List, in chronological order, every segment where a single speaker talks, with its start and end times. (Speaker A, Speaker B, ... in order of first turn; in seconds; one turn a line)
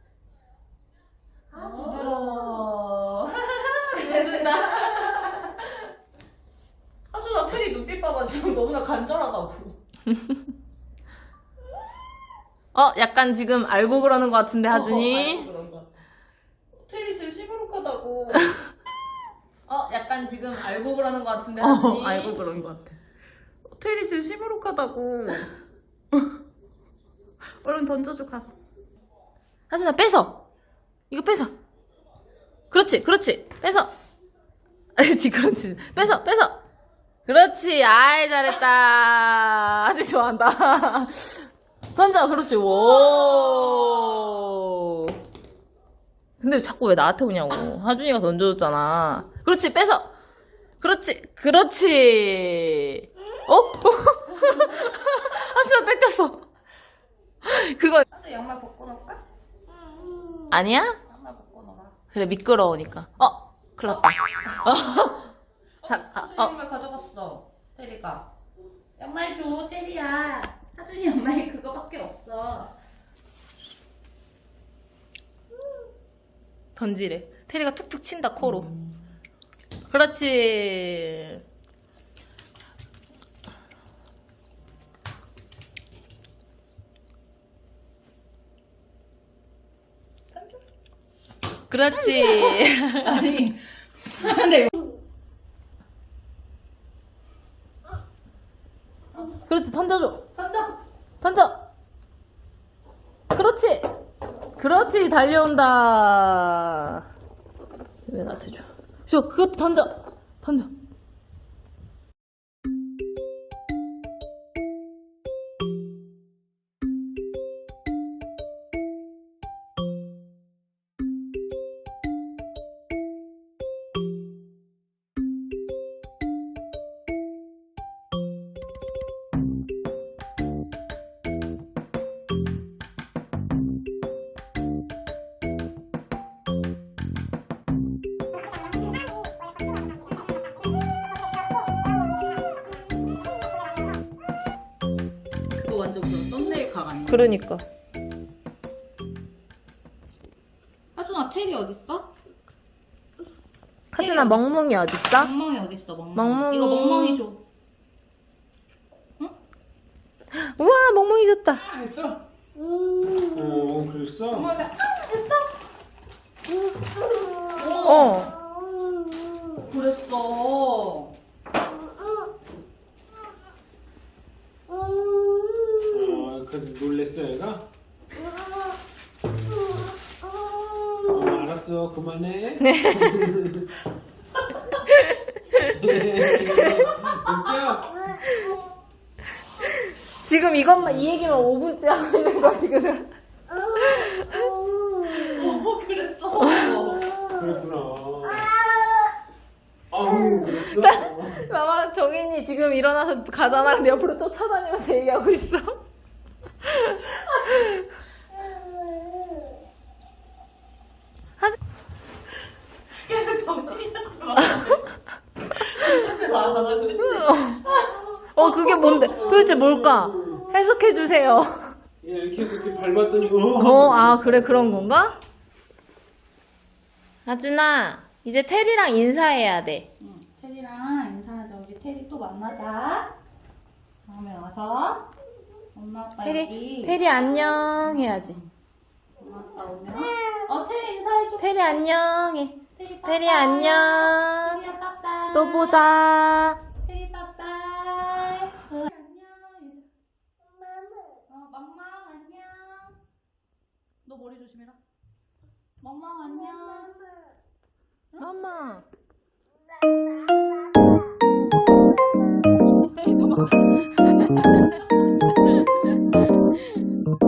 Speaker A: 1.5-2.6
Speaker B: 1.6-5.7
Speaker A: 3.6-5.3
Speaker A: 7.1-9.8
Speaker B: 10.1-10.4
Speaker B: 12.7-15.5
Speaker A: 14.7-15.9
Speaker A: 16.8-18.6
Speaker B: 19.7-22.9
Speaker A: 21.6-22.5
Speaker A: 23.7-25.5
Speaker A: 27.6-28.5
Speaker B: 29.7-30.4
Speaker B: 31.1-31.5
Speaker B: 32.7-33.9
Speaker B: 35.0-36.6
Speaker B: 37.3-45.1
Speaker B: 46.4-50.1
Speaker B: 50.8-56.4
Speaker B: 57.4-58.0
Speaker A: 58.1-59.2
Speaker B: 60.5-61.0
Speaker A: 61.0-62.0
Speaker B: 62.1-65.3
Speaker A: 63.9-64.7
Speaker A: 65.8-68.3
Speaker B: 65.8-66.5
Speaker A: 69.0-72.7
Speaker B: 76.8-78.7
Speaker B: 79.9-81.4
Speaker B: 91.7-93.3
Speaker A: 92.2-94.7
Speaker B: 99.3-100.4
Speaker A: 100.4-100.7
Speaker B: 101.2-101.6
Speaker B: 103.3-103.9
Speaker B: 104.6-107.1
Speaker B: 108.1-110.7
Speaker A: 145.6-147.3
Speaker B: 147.1-147.6
Speaker A: 151.0-152.1
Speaker B: 153.9-155.3
Speaker A: 154.0-154.5
Speaker A: 155.1-157.4
Speaker B: 156.2-157.2
Speaker B: 160.3-161.7
Speaker C: 161.6-162.2
Speaker C: 163.3-164.7
Speaker A: 164.3-165.6
Speaker A: 167.3-168.3
Speaker B: 167.8-168.3
Speaker A: 169.5-171.1
Speaker C: 175.9-177.7
Speaker C: 181.1-183.8
Speaker B: 182.6-183.3
Speaker B: 184.8-185.7
Speaker C: 185.7-188.0
Speaker B: 186.3-186.8
Speaker A: 187.0-187.5
Speaker B: 189.6-193.1
Speaker C: 191.0-191.4
Speaker B: 193.6-194.5
Speaker A: 195.0-197.2
Speaker C: 197.1-198.6
Speaker C: 199.9-201.5
Speaker B: 200.4-205.7
Speaker B: 206.6-207.8
Speaker A: 212.9-214.8
Speaker A: 215.6-218.0
Speaker B: 217.0-217.8
Speaker B: 218.3-221.7
Speaker C: 218.6-220.5
Speaker C: 222.0-224.9
Speaker B: 223.6-225.2
Speaker B: 227.3-229.9
Speaker A: 230.0-233.1
Speaker A: 234.1-235.1
Speaker A: 235.8-237.0
Speaker B: 236.2-238.4
Speaker A: 237.8-238.5
Speaker A: 239.2-241.7
Speaker B: 241.4-244.6
Speaker A: 242.8-245.9
Speaker B: 245.3-246.6
Speaker A: 246.8-249.9
Speaker A: 251.3-253.0
Speaker A: 254.1-254.8
Speaker A: 255.8-257.0
Speaker B: 258.2-258.9
Speaker A: 262.8-264.9
Speaker B: 263.7-264.7
Speaker B: 265.3-266.8